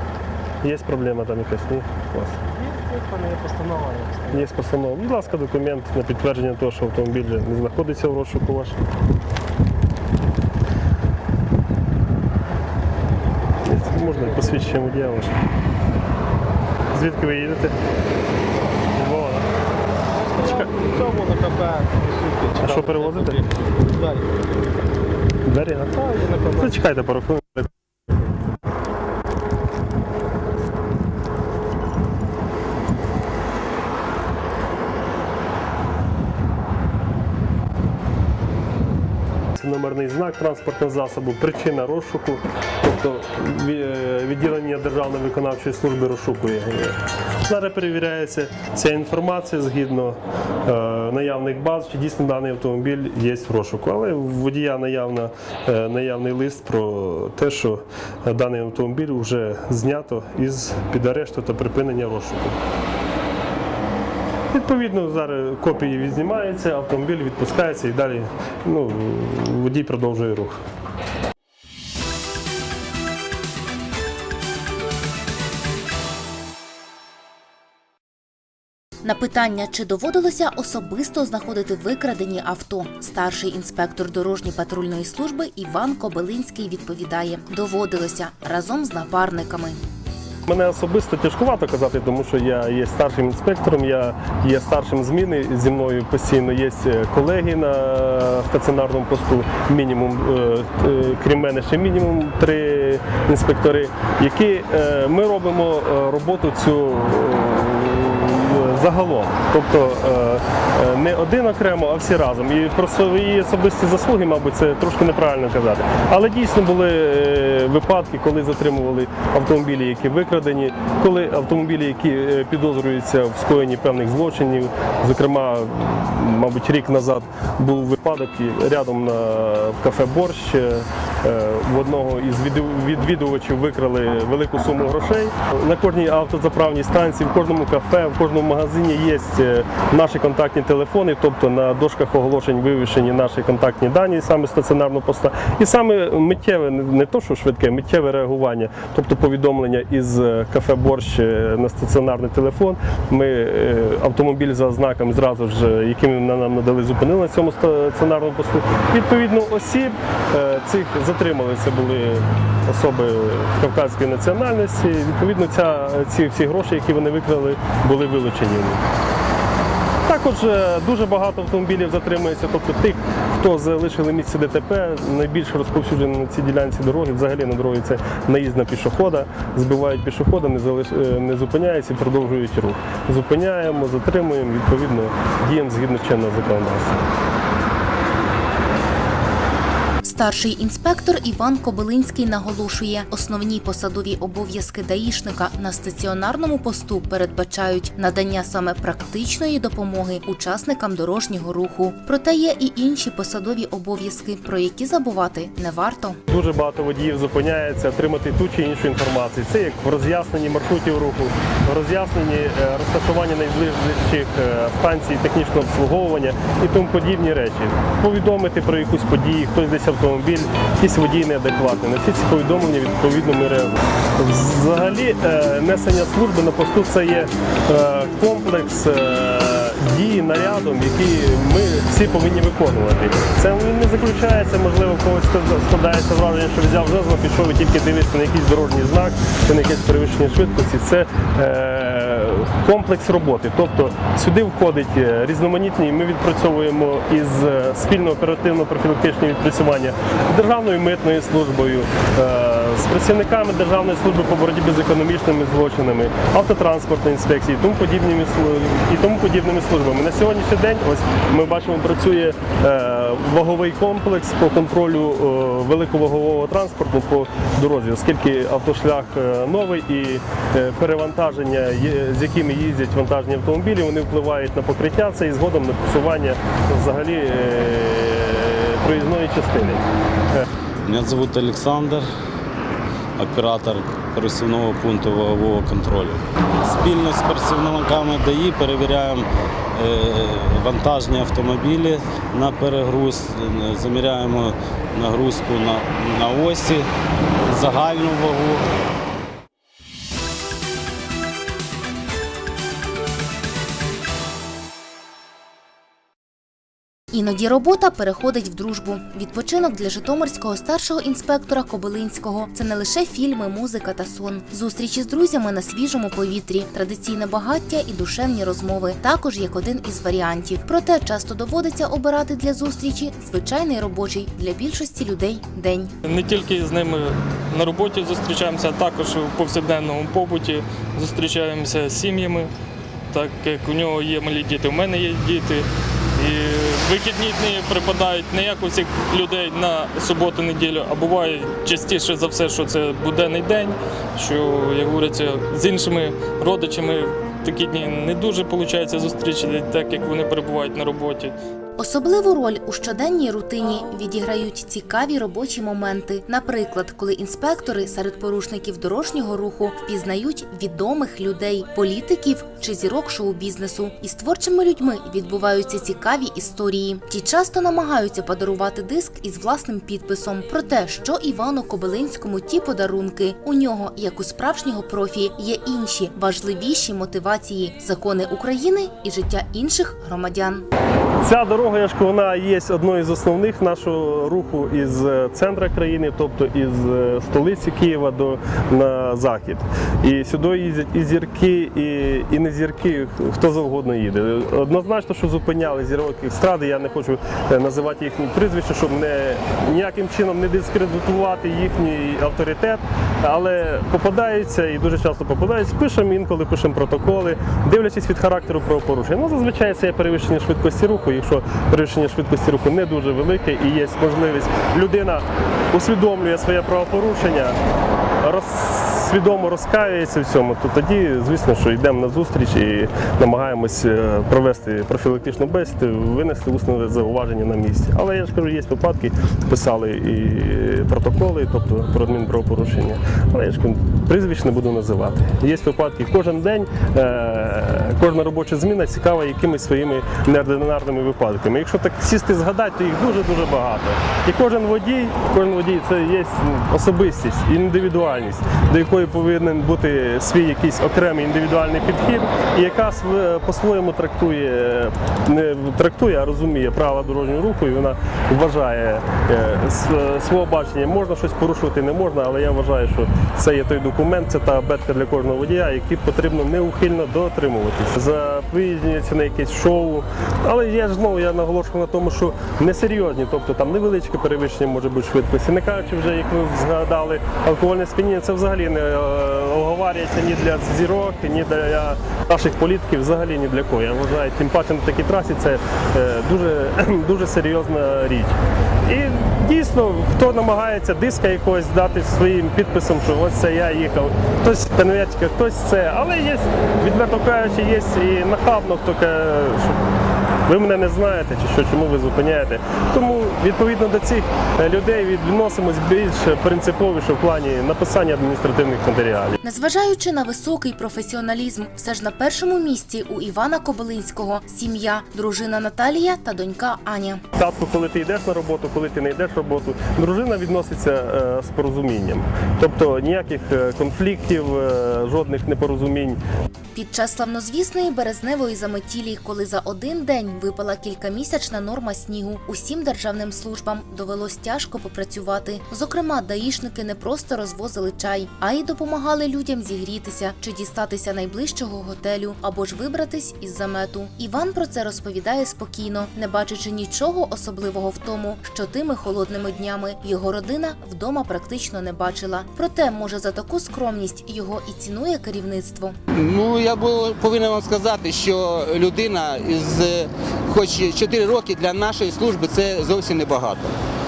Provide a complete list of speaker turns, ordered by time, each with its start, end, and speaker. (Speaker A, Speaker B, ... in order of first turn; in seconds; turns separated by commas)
Speaker A: 0.6-2.4, Speaker B: 2.5-4.6, Speaker A: 4.3-8.8, Speaker A: 13.6-15.4, Speaker B: 14.2-14.6, Speaker A: 16.9-17.7, Speaker A: 18.9-19.5, Speaker B: 20.1-24.4, Speaker A: 20.4-20.7, Speaker A: 22.6-23.4, Speaker A: 25.4-26.0, Speaker B: 25.9-26.8, Speaker A: 26.6-27.7, Speaker A: 39.5-62.6, Speaker A: 64.5-70.6, Speaker C: 79.0-89.8, Speaker A: 90.5-168.8, Speaker A: 170.1-187.0, Speaker C: 190.0-206.2, Speaker A: 206.3-280.5, Speaker D: 280.8-282.1, Speaker D: 283.2-296.9, Speaker D: 297.4-298.7, Speaker C: 307.1-325.9, Speaker E: 326.0-332.5, Speaker E: 333.1-351.3, Speaker C: 351.8-380.7, Speaker A: 381.2-417.6, Speaker A: 418.2-499.8, Speaker A: 500.4-509.4, Speaker C: 509.4-517.2, Speaker A: 517.3-526.2, Speaker C: 526.7-555.9, Speaker F: 556.1-563.7